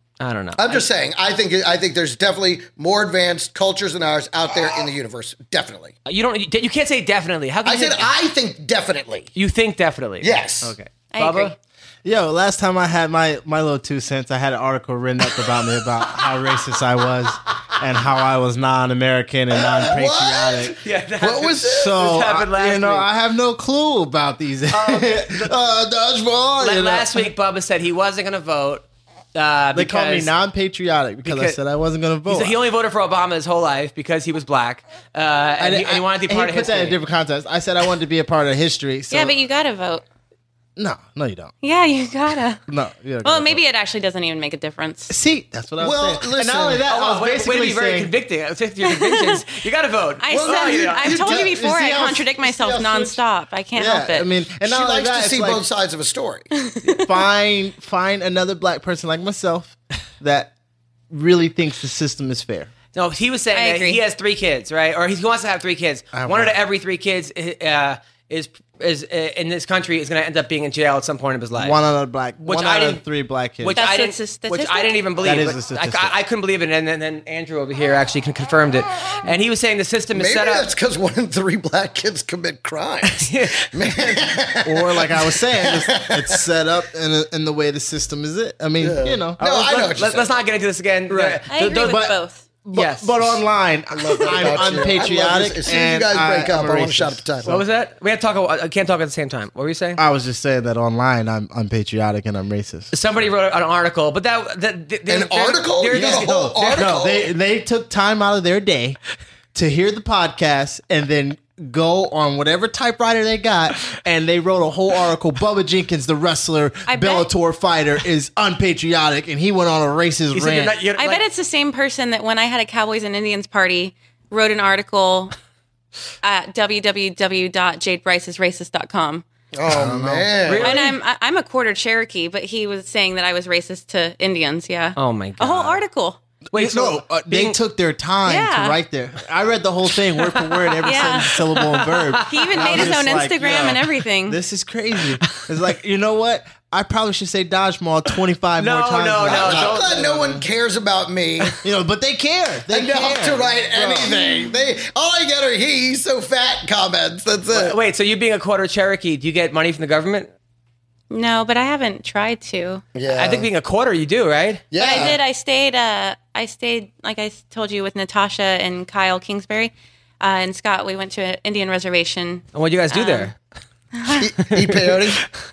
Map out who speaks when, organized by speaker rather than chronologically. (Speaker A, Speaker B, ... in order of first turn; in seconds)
Speaker A: 0.2-0.8, 6.1-8.1, 9.3-11.6, 20.7-23.1, 24.7-25.6, 26.6-30.3, 31.2-31.6, 32.3-37.0, 46.9-51.2, 62.9-71.8, 72.4-73.0, 73.6-80.7, 83.1-84.2, 89.4-92.1, 92.7-93.4, 97.5-100.0, 102.9-107.0, 120.3-121.2, 130.5-130.9, 135.0-135.8, 136.5-137.6, 140.5-143.0, 148.6-150.1, 157.5-160.3, 163.1-165.2, 172.6-173.4, 174.5-175.0
Speaker B: 0.6-5.9, 7.7-9.3, 10.2-10.7, 19.7-22.0, 45.8-46.8, 50.3-51.6, 54.6-56.5, 80.1-86.5, 88.8-90.3, 93.9-97.6, 105.1-107.3, 129.5-130.8, 149.2-151.6, 152.7-157.8, 162.9-163.5, 164.7-165.2, 174.1-175.2
Speaker C: 11.1-11.6, 39.1-40.0, 41.6-42.6, 43.2-45.1, 48.8-49.5, 50.2-54.3, 56.6-57.0, 63.5-64.0, 73.7-75.5, 91.5-92.4, 116.9-117.3, 121.0-125.4, 126.2-129.2, 130.6-136.2, 138.3-138.8, 140.8-141.5, 142.2-144.4, 154.1-154.5, 161.1-162.9, 164.8-173.3, 174.0-174.2
Speaker D: 12.0-20.8, 21.7-27.3, 29.7-32.5, 35.6-39.3, 40.8-41.5, 42.7-43.6, 45.1-48.1, 51.2-53.2, 53.8-55.6, 56.9-60.5, 61.1-62.7, 66.1-66.5, 71.6-73.8, 75.2-76.1, 84.7-89.4, 91.1-97.2, 100.0-102.9, 105.9-109.0, 109.5-120.8, 129.7-130.3, 136.5-150.4, 151.6-154.2